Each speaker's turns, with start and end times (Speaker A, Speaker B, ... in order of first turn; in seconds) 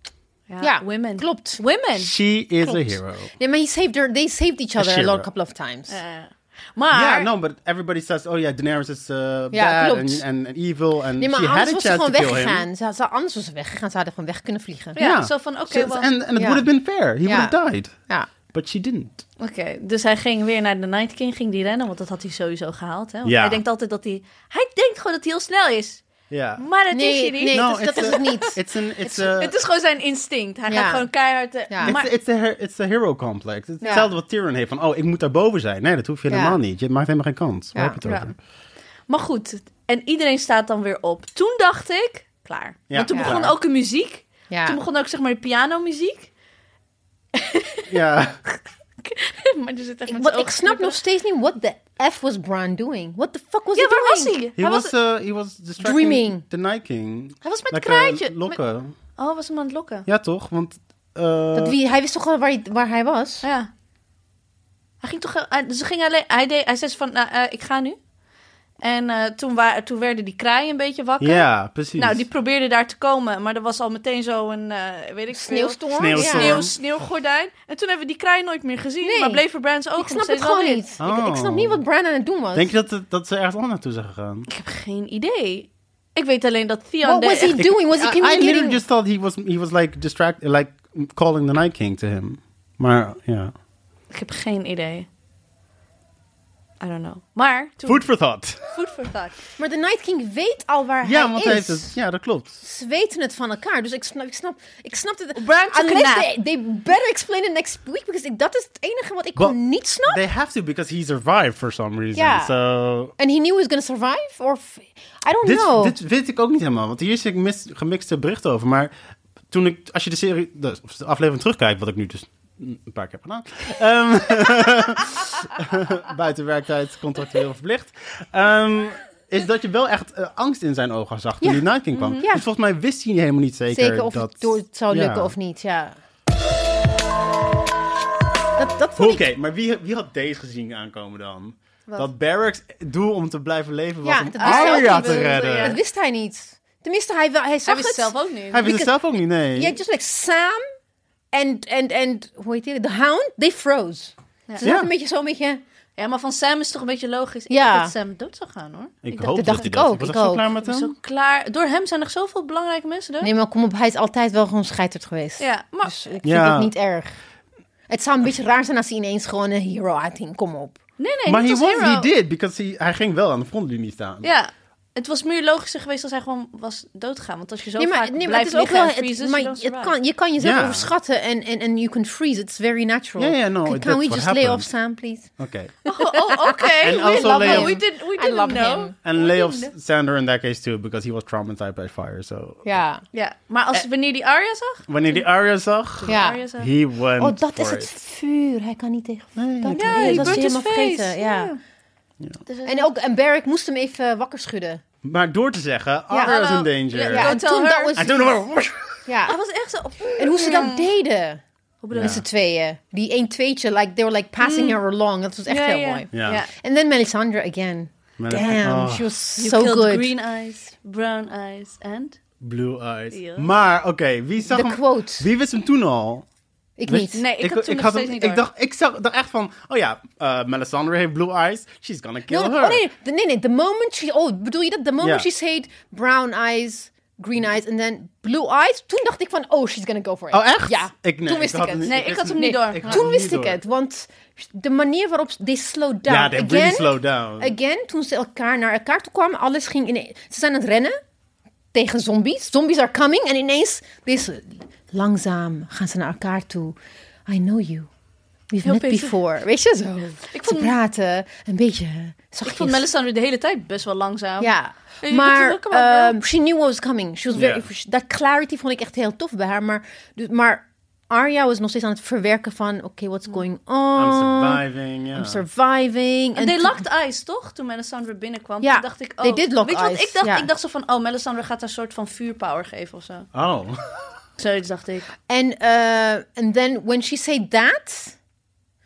Speaker A: 0.5-2.1, 5.9-7.3, 14.9-16.1, 19.4-26.0, 26.6-28.6, 29.2-32.1, 38.0-38.3, 39.1-46.3, 47.3-48.0, 48.5-51.0, 53.7-54.9, 57.4-58.6, 59.2-60.1, 63.4-63.7, 65.0-68.0, 68.8-80.8, 84.5-87.6, 94.1-95.1, 96.8-98.0, 98.7-99.4, 105.3-106.3, 131.9-132.3, 144.4-145.8, 147.7-148.7, 156.0-159.1, 160.6-163.3, 165.4-166.0, 171.0-172.1, 174.2-179.9, 185.9-189.7, 193.1-195.2, 196.0-196.7, 199.7-201.6, 202.5-202.9, 206.2-208.0, 209.2-210.9, 211.8-212.2, 214.4-214.8, 215.5-216.5, 219.4-222.2, 223.1-223.5, 227.1-228.4, 241.8-243.1, 258.6-259.1, 260.3-260.8, 262.4-266.2, 276.4-283.3, 284.4-285.1
Speaker B: 0.6-1.6, 2.6-6.0, 9.5-10.2, 11.2-15.0, 16.4-16.6, 17.2-17.5, 26.9-29.3, 30.7-31.0, 31.7-31.9, 33.8-34.1, 36.3-36.6, 43.1-43.4, 44.5-44.8, 50.1-54.4, 55.8-56.4, 61.5-63.5, 75.3-76.7, 79.0-79.4, 80.0-82.7, 87.0-88.8, 99.6-102.0, 102.6-110.2, 112.1-112.5, 113.2-115.9, 133.7-136.0, 138.6-139.2, 144.0-148.9, 149.5-150.6, 151.3-155.6, 157.5-157.9, 159.2-160.4, 163.2-167.1, 167.9-170.8, 177.8-185.3, 185.8-188.9, 192.6-193.0, 196.1-196.4, 197.2-201.5, 202.7-204.8, 206.1-206.3, 207.1-208.3, 209.1-209.3, 210.2-211.4, 211.9-220.1, 224.4-225.3, 226.8-227.2, 232.3-251.0, 251.7-256.8, 257.3-257.9, 258.5-262.9, 264.4-274.6, 275.1-276.8, 278.6-280.5, 285.3-288.1
Speaker C: 2.0-3.3, 4.8-5.3, 6.9-12.7, 15.0-17.9, 18.5-19.2, 23.2-23.6, 26.3-26.6, 27.5-29.5, 31.8-38.3, 42.9-43.5, 47.9-48.4, 54.6-58.9, 60.1-61.8, 71.2-72.2, 75.9-76.7, 81.0-81.8, 82.5-84.5, 87.5-93.5, 97.8-98.6, 101.0-102.6, 109.4-113.1, 115.4-118.9, 119.5-135.3, 138.9-145.8, 148.5-149.7, 154.6-154.9, 159.0-160.9, 166.2-166.7, 171.3-174.3, 180.4-180.9, 183.2-184.7, 185.4-185.7, 186.8-187.8, 189.0-192.7, 194.9-197.9, 199.3-200.4, 205.0-207.3, 208.0-209.0, 211.9-212.2, 216.1-216.4, 218.2-219.0, 222.4-226.2, 226.9-232.8, 235.0-235.2, 240.3-243.6, 246.1-247.5, 267.3-267.7, 273.9-275.4, 283.3-283.8